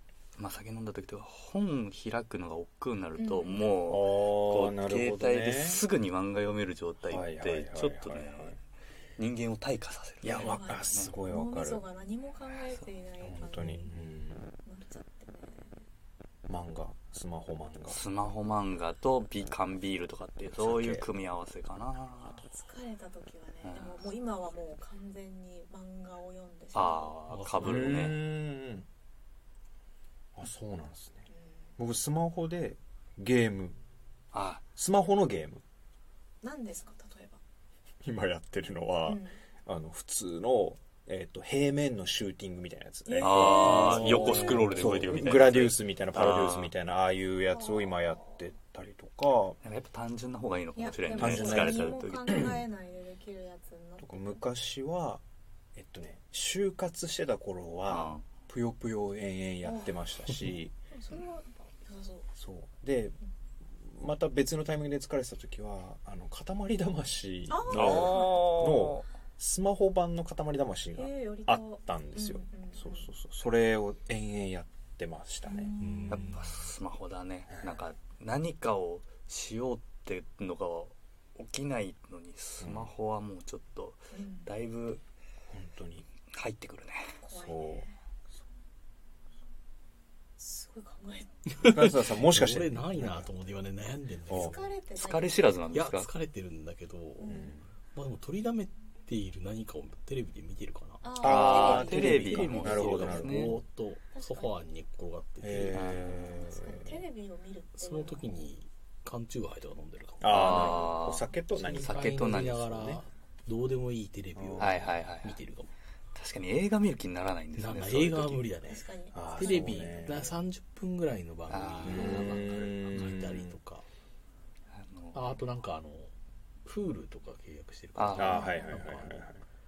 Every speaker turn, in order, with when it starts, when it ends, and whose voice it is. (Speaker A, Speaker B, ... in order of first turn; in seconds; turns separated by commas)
Speaker A: 0.4-8.6, Speaker B: 3.2-3.7, Speaker C: 3.9-5.8, Speaker C: 7.1-8.6, Speaker A: 9.2-11.1, Speaker C: 10.2-11.8, Speaker B: 10.3-13.9, Speaker C: 13.2-14.5, Speaker D: 13.6-13.9, Speaker B: 14.6-15.8, Speaker C: 16.5-18.0, Speaker A: 17.9-22.5, Speaker C: 20.6-21.1, Speaker B: 22.5-27.1, Speaker A: 23.6-24.1, Speaker A: 26.7-28.2, Speaker D: 27.3-28.2, Speaker C: 27.6-28.9, Speaker C: 30.4-31.3, Speaker B: 31.3-31.6, Speaker C: 31.8-33.8, Speaker A: 34.3-34.6, Speaker C: 34.8-35.6, Speaker B: 36.4-37.4, Speaker C: 38.0-49.6, Speaker B: 39.1-39.4, Speaker B: 43.1-44.8, Speaker A: 43.2-46.7, Speaker D: 43.9-44.6, Speaker B: 47.5-48.3, Speaker A: 49.6-52.5, Speaker B: 50.8-54.4, Speaker C: 51.2-52.6, Speaker C: 54.0-55.2, Speaker C: 55.8-60.8, Speaker A: 57.9-58.2, Speaker B: 59.6-59.9, Speaker B: 60.9-62.3, Speaker C: 62.4-63.2, Speaker C: 63.7-75.7, Speaker B: 67.5-68.5, Speaker A: 67.7-69.1, Speaker B: 71.0-73.1, Speaker B: 75.5-76.4, Speaker D: 75.8-76.4, Speaker A: 76.1-85.0, Speaker C: 77.5-77.8, Speaker C: 82.6-82.9, Speaker B: 84.1-84.5, Speaker C: 85.5-86.1, Speaker A: 86.3-87.1, Speaker B: 87.2-87.9, Speaker C: 87.3-87.9, Speaker B: 90.4-91.3, Speaker D: 91.5-94.7, Speaker C: 91.6-93.3, Speaker C: 94.3-94.6, Speaker B: 94.3-95.5, Speaker A: 95.0-96.1, Speaker D: 95.7-106.2, Speaker B: 97.2-97.5, Speaker C: 97.3-97.7, Speaker B: 101.0-102.3, Speaker A: 101.2-103.6, Speaker C: 101.2-103.6, Speaker B: 104.1-104.6, Speaker C: 105.4-107.1, Speaker A: 105.7-106.1, Speaker B: 106.2-108.5, Speaker D: 107.7-110.9, Speaker C: 110.2-113.0, Speaker A: 110.3-113.0, Speaker D: 111.5-115.7, Speaker C: 114.4-114.8, Speaker A: 114.6-115.4, Speaker A: 116.2-118.5, Speaker D: 117.6-123.8, Speaker B: 118.7-120.4, Speaker C: 119.1-120.3, Speaker A: 121.5-122.5, Speaker C: 121.8-123.6, Speaker A: 124.7-125.4, Speaker D: 125.1-126.1, Speaker D: 126.7-129.2, Speaker A: 128.0-128.5, Speaker C: 128.1-129.4, Speaker B: 128.3-128.8